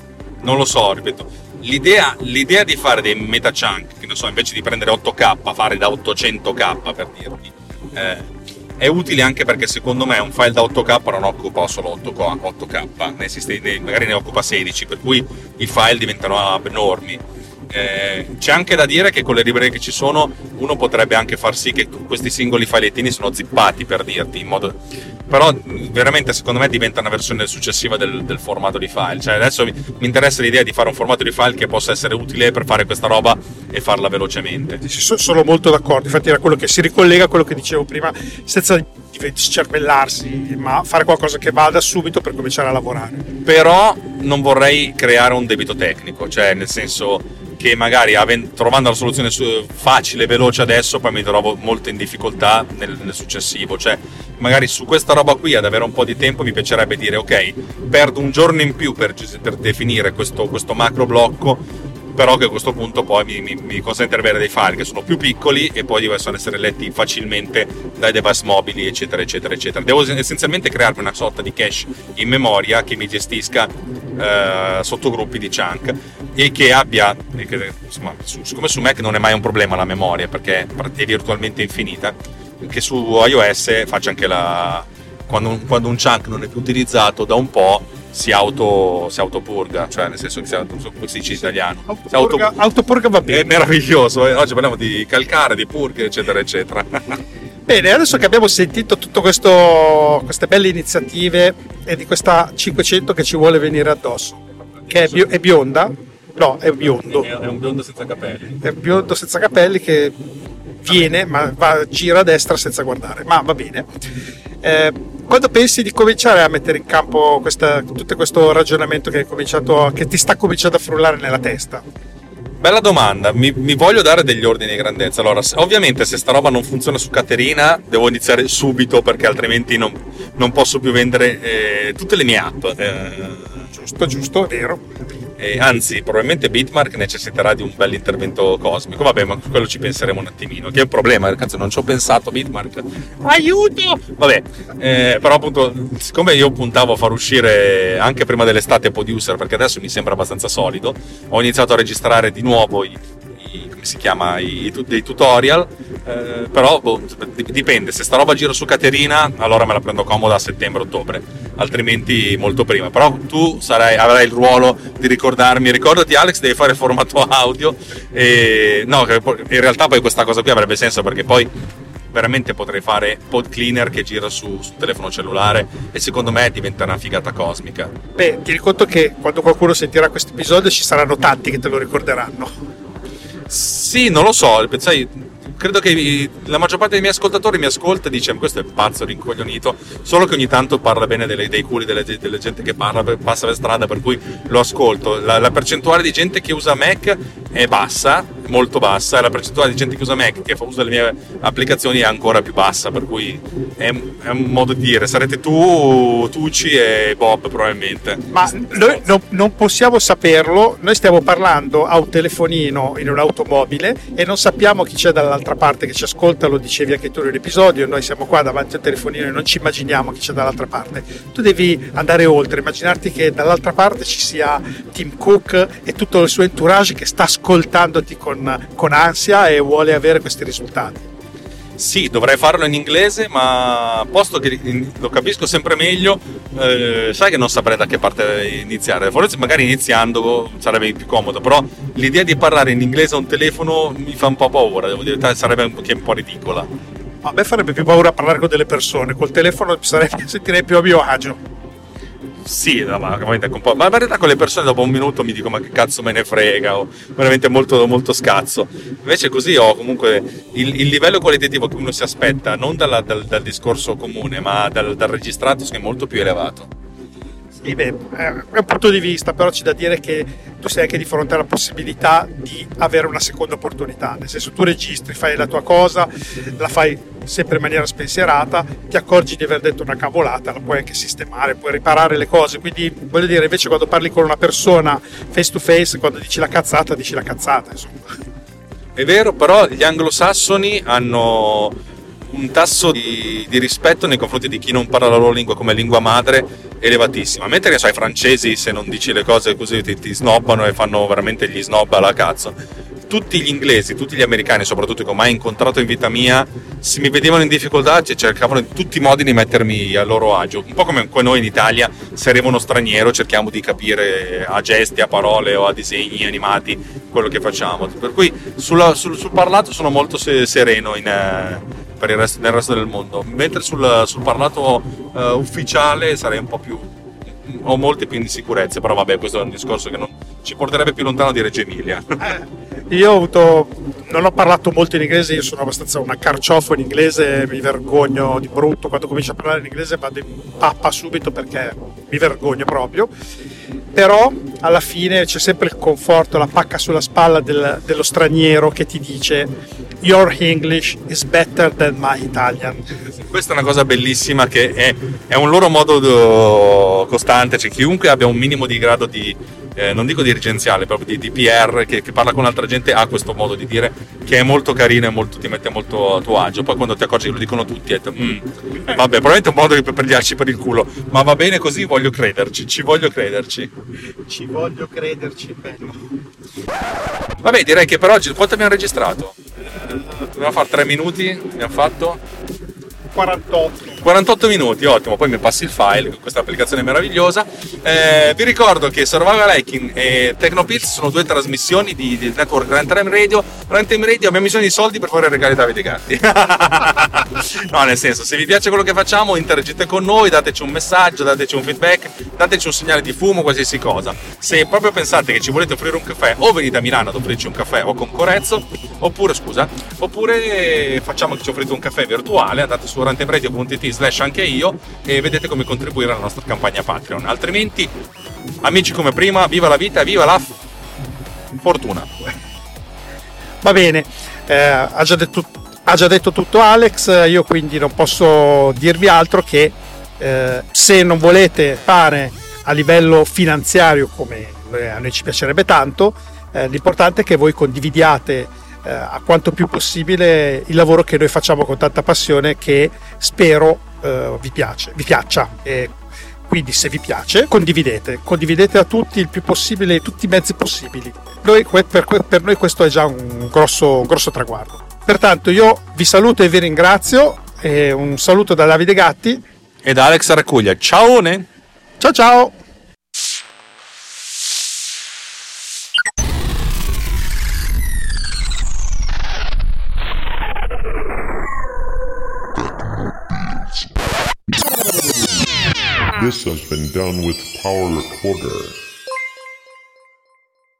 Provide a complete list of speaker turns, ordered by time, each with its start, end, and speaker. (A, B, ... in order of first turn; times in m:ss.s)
0:00.4-0:34.8 A
0:34.8-0:43.3 B
0:43.4-1:32.5 A
1:31.9-1:33.5 B
1:33.2-1:37.2 A
1:37.7-1:47.3 B
1:44.9-1:45.2 A
1:47.1-1:48.6 A
1:48.6-1:50.2 B
1:50.8-1:53.9 B
1:54.6-2:01.8 B
2:02.6-2:13.6 A
2:13.7-2:14.9 B
2:15.4-2:51.5 A
2:52.1-2:57.9 A
2:58.2-3:02.5 B
3:03.5-3:29.0 A
3:28.3-3:51.1 B
3:51.8-4:06.7 A
4:07.2-4:11.4 B
4:12.4-4:26.7 A
4:27.6-4:48.1 B
4:49.0-4:51.8 A
4:52.3-5:02.6 A
5:03.1-5:26.9 A
5:27.4-5:32.3 A
5:32.2-5:43.1 B
5:43.9-5:52.9 B
5:53.1-6:13.7 A
6:14.3-6:16.1 B
6:17.4-6:19.4 A
6:20.3-6:22.2 A
6:23.1-6:24.1 B
6:24.0-6:58.0 A
6:58.6-7:00.5 A
7:01.6-7:02.2 A
7:03.6-7:26.0 B
7:26.5-7:39.4 B
7:39.8-7:41.5 A
7:42.0-7:42.6 B
7:56.1-7:58.8 C